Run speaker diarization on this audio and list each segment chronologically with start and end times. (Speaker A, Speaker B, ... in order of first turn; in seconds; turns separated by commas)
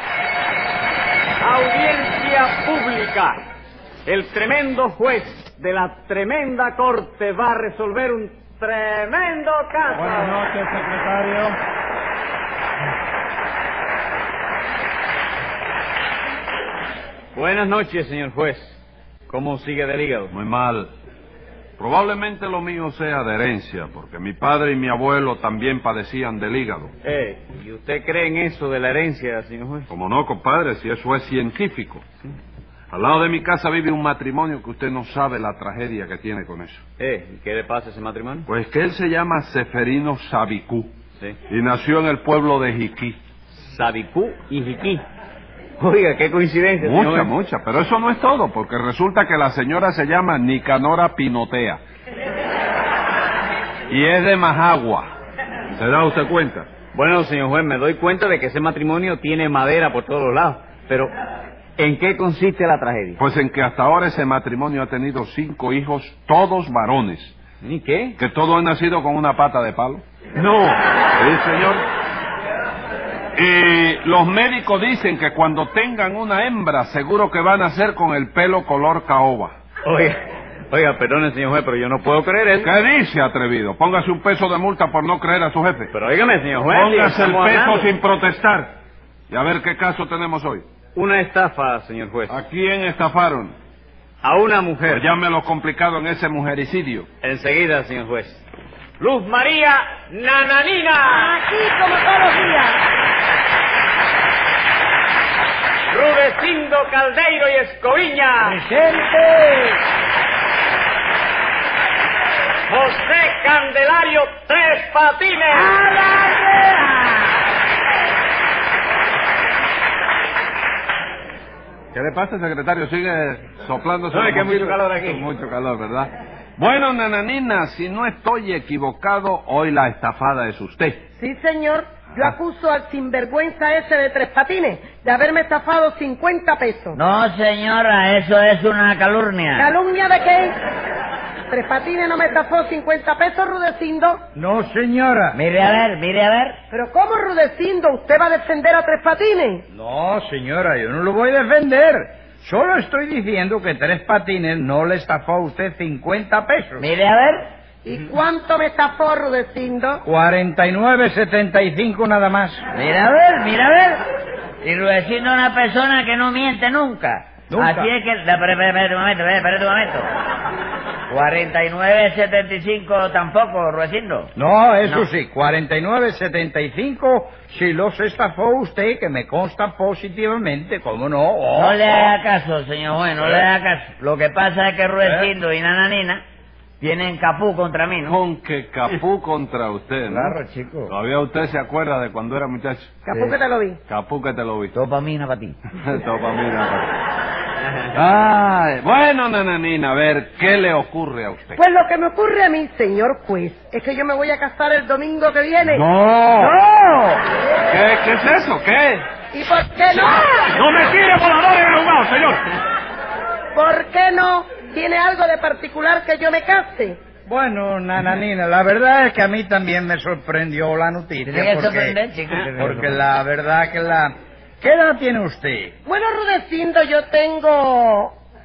Speaker A: 1.4-3.4, Speaker A: 4.0-10.4, Speaker B: 9.9-11.6, Speaker A: 17.3-20.3, Speaker B: 20.3-20.9, Speaker B: 21.8-26.9, Speaker A: 27.0-29.9, Speaker B: 29.9-32.0, Speaker B: 32.9-36.8, Speaker A: 37.0-38.5, Speaker B: 38.5-40.9, Speaker B: 41.5-43.2, Speaker A: 43.5-45.0, Speaker A: 45.8-47.3, Speaker B: 46.8-51.8, Speaker B: 53.9-55.1, Speaker B: 55.7-56.7, Speaker A: 56.9-61.1, Speaker A: 61.8-63.2, Speaker B: 63.2-67.3, Speaker A: 67.6-68.2, Speaker B: 68.2-71.8, Speaker B: 73.3-79.5, Speaker A: 79.8-80.2, Speaker A: 80.7-82.7, Speaker B: 82.6-85.9, Speaker A: 85.9-87.9, Speaker B: 86.7-88.7, Speaker B: 89.3-90.7, Speaker A: 90.9-92.4, Speaker B: 92.3-93.5, Speaker A: 94.2-95.1, Speaker B: 94.9-97.1, Speaker A: 97.2-98.4, Speaker A: 99.0-101.3, Speaker C: 101.0-102.8, Speaker A: 105.9-108.6, Speaker D: 108.4-109.8, Speaker A: 112.7-115.8, Speaker B: 121.9-131.0, Speaker A: 124.1-125.2, Speaker C: 131.2-137.0, Speaker E: 136.9-139.7, Speaker C: 139.6-140.6, Speaker C: 141.5-144.2, Speaker D: 144.3-145.4, Speaker E: 145.3-146.6, Speaker C: 146.7-149.6, Speaker D: 149.7-156.8, Speaker E: 156.8-157.5, Speaker C: 157.8-160.0, Speaker D: 160.0-162.6, Speaker E: 162.7-164.0, Speaker E: 164.6-170.1, Speaker D: 167.5-167.9, Speaker E: 171.1-174.3, Speaker D: 174.3-182.1, Speaker E: 181.5-186.2, Speaker E: 186.8-188.2, Speaker B: 188.1-190.4, Speaker E: 190.0-190.9, Speaker B: 190.9-193.0, Speaker C: 193.1-193.8, Speaker B: 193.9-194.7, Speaker E: 194.7-195.6, Speaker B: 195.8-196.9, Speaker B: 197.9-201.6, Speaker C: 201.6-205.8, Speaker B: 205.6-206.6, Speaker C: 206.4-207.2, Speaker B: 207.7-209.1, Speaker C: 209.3-210.4, Speaker B: 209.9-212.5, Speaker C: 213.5-217.0, Speaker D: 217.2-221.9, Speaker E: 221.2-223.0, Speaker D: 222.5-225.7, Speaker C: 225.8-228.2